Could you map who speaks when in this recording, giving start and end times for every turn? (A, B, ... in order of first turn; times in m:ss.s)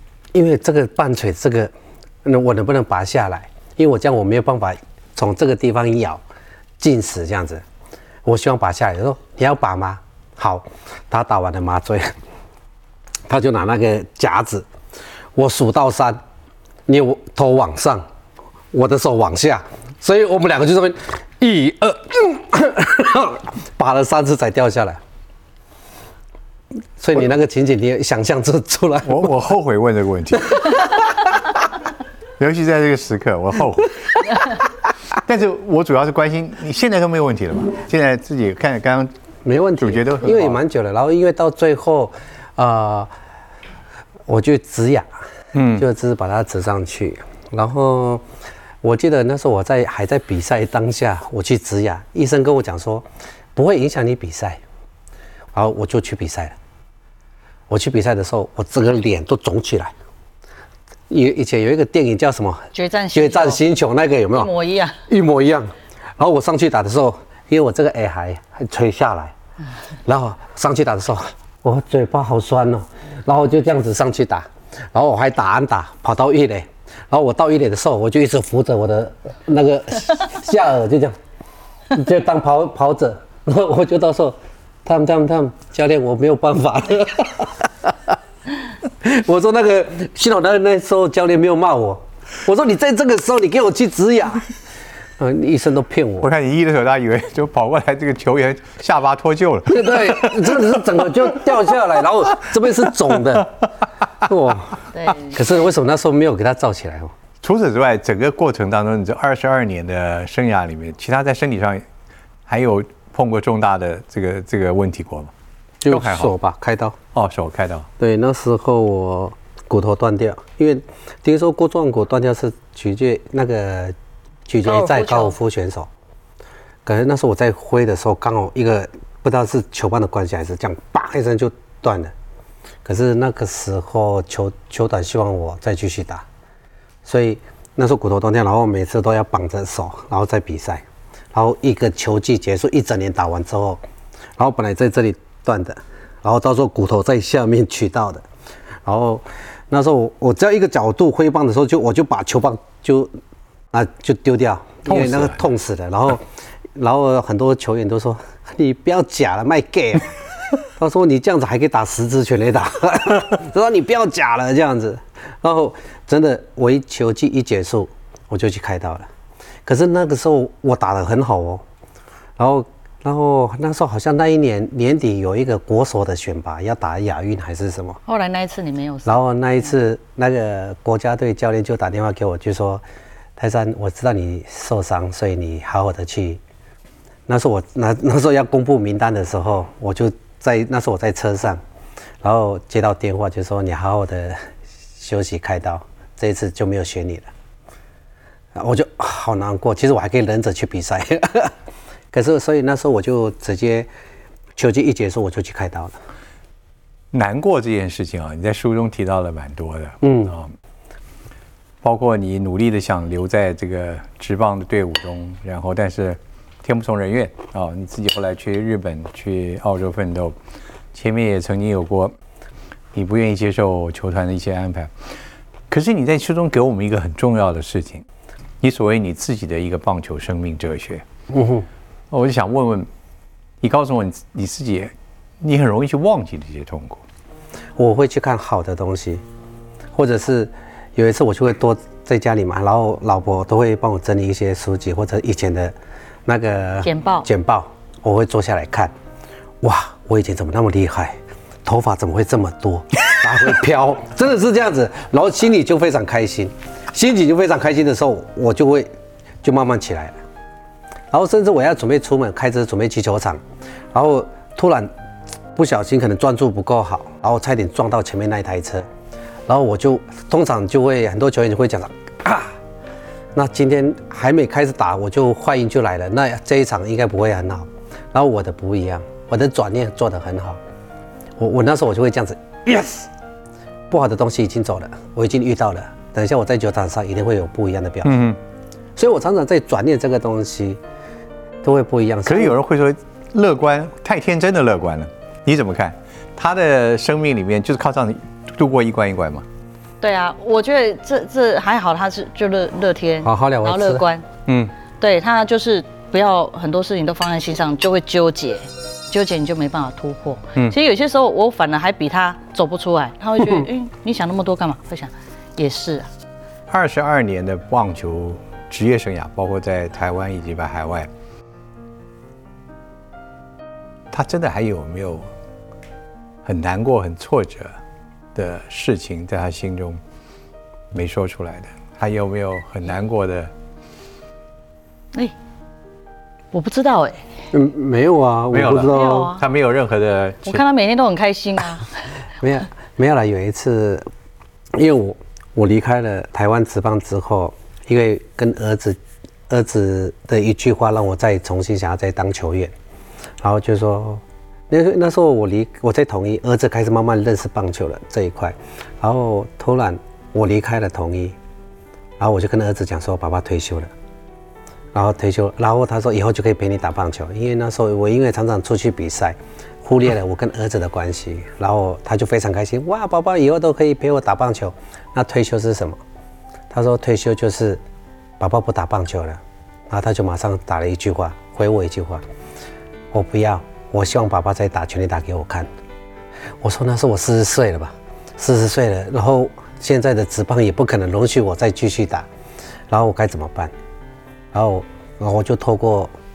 0:00.3-0:01.7 A
0:02.2-0:06.2 A
0:06.8-0:07.6 A
0:08.2-0:12.2 A
0:13.3-0:14.7 A
0:15.4-0:16.2 A
0:16.9-0:18.0 A
0:18.7-0:25.0 A
0:27.0-0:29.3 A
0:29.0-0:30.7 B
0:30.4-0:31.2 A
0:32.4-0:34.0 B
0:35.1-0:39.1 B
0:39.4-0:43.1 A
0:39.8-0:40.6 B
0:44.3-0:45.1 A
0:45.5-0:45.9 B
0:45.8-0:48.2 A
0:48.8-0:54.6 A
0:55.5-0:56.6 A
0:57.7-0:59.9 A
1:01.1-1:04.5 A
1:02.7-1:03.6 C
1:04.3-1:05.0 C
1:05.1-1:09.3 A
1:10.1-1:21.2 A
1:21.9-1:28.2 A
1:29.0-1:34.5 A
1:35.2-1:36.3 A
1:36.2-1:40.7 B
1:39.7-1:43.5 A
1:44.2-1:47.1 A
1:44.9-1:45.3 C
1:47.4-1:51.8 B
1:52.5-1:55.3 B
1:55.8-1:57.0 A
1:55.9-1:56.3 B
1:57.1-1:57.9 B
1:58.0-2:04.0 A
2:04.5-2:05.9 A
2:04.6-2:05.4 C
2:06.9-2:12.1 A
2:12.8-2:16.2 A
2:17.0-2:23.8 A
2:24.4-2:28.2 A
2:28.8-2:33.1 A
2:33.7-2:40.2 A
2:34.9-2:35.4 B
2:40.8-2:49.1 A
2:49.7-2:51.6 A
2:52.4-2:58.0 A
2:58.1-2:59.2 C
2:59.1-3:02.8 A
3:03.4-3:06.4 A
3:07.3-3:11.6 A
3:12.2-3:14.4 A
3:15.0-3:17.3 A
3:18.6-3:21.5 A
3:22.1-3:23.9 A
3:24.6-3:26.0 A
3:27.1-3:30.5 B
3:30.0-3:30.3 A
3:31.8-3:40.4 B
3:40.9-3:42.1 B
3:42.9-3:44.9 B
3:45.7-3:48.0 B
3:48.6-3:51.0 B
3:51.3-3:51.7 A
3:52.1-3:52.9 B
3:53.6-3:57.0 B
3:57.8-3:59.2 A
3:59.9-4:05.8 A
4:06.3-4:08.9 A
4:06.8-4:07.3 C
4:09.6-4:18.9 A
4:19.4-4:20.2 A
4:21.1-4:23.4 A
4:23.9-4:24.9 A
4:25.6-4:28.9 A
4:29.5-4:32.5 A
4:33.3-4:40.6 A
4:41.4-4:43.1 A
4:43.9-4:48.2 A
4:48.0-4:48.4 B
4:49.0-4:50.8 A
4:51.6-4:52.6 A
4:52.3-4:59.4 B
5:00.0-5:04.3 C
5:03.2-5:04.0 A
5:04.5-5:04.7 B
5:05.0-5:16.1 C
5:16.7-5:21.1 B
5:24.1-5:25.3 B
5:26.4-5:27.8 B
5:28.4-5:30.0 B
5:30.9-5:33.5 B
5:36.5-5:37.2 C
5:37.5-5:39.3 A
5:38.5-5:40.6 B
5:38.9-5:39.4 C
5:40.5-5:42.0 C
5:42.4-5:44.1 A
5:44.8-5:52.7 A
5:53.4-6:01.4 A
6:02.2-6:03.9 A
6:04.9-6:16.0 A
6:16.7-6:17.8 A
6:18.4-6:22.2 A
6:23.1-6:25.7 A
6:26.6-6:32.3 A
6:32.9-6:33.7 A
6:34.5-6:36.1 A